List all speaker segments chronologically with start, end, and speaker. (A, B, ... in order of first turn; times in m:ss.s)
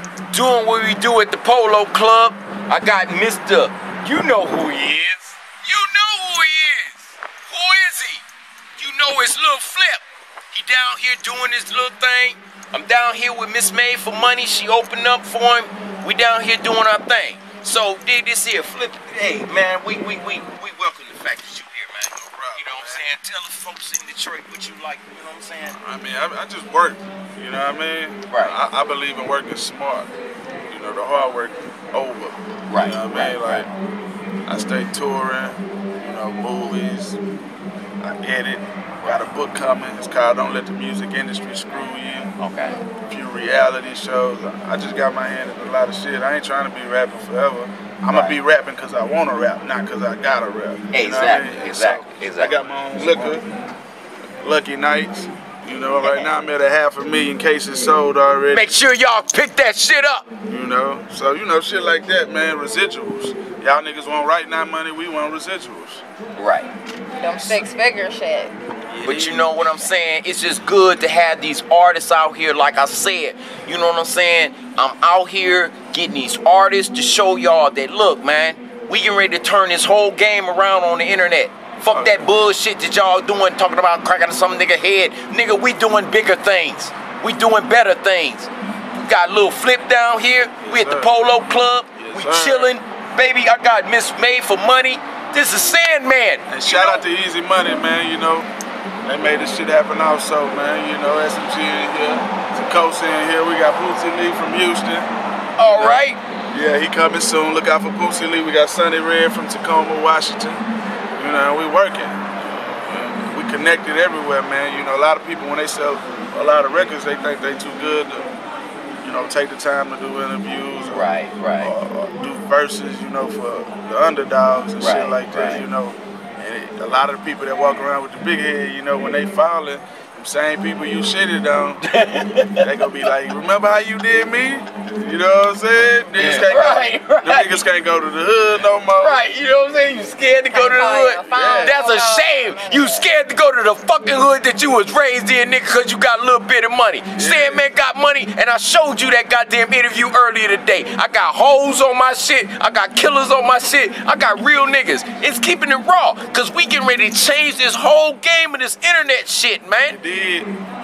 0:00.3-0:08.2 A
0:08.8-0:25.8 A
0:22.2-0:23.1 B
0:25.8-0:30.1 B
0:28.3-0:28.6 A
0:30.7-0:33.7 B
0:32.7-0:33.7 A
0:34.4-0:37.2 B
0:38.0-0:42.3 B
0:42.4-0:42.8 A
0:43.1-0:53.4 B
0:48.1-0:48.4 A
0:50.9-0:53.3 A
0:54.4-0:58.7 B
0:56.0-0:56.3 A
0:58.5-1:00.3 A
1:00.5-1:06.0 B
1:06.4-1:06.7 A
1:07.2-1:08.5 C
1:08.9-1:09.5 B
1:09.0-1:37.0 A
1:21.9-1:22.4 B
1:30.6-1:31.1 B
1:31.9-1:32.7 B
1:36.5-1:38.5 B
1:39.0-1:45.1 B
1:45.6-1:46.2 A
1:46.5-1:50.6 B
1:51.2-1:52.2 B
1:52.8-1:58.3 B
1:59.0-2:11.8 B
2:00.9-2:01.7 A
2:04.8-2:05.6 A
2:11.8-2:12.6 A
2:12.6-2:19.2 B
2:16.2-2:17.6 A
2:19.0-2:40.0 A
2:20.5-2:23.1 C
2:21.3-2:21.8 B
2:27.2-2:27.6 B
2:39.8-2:40.5 B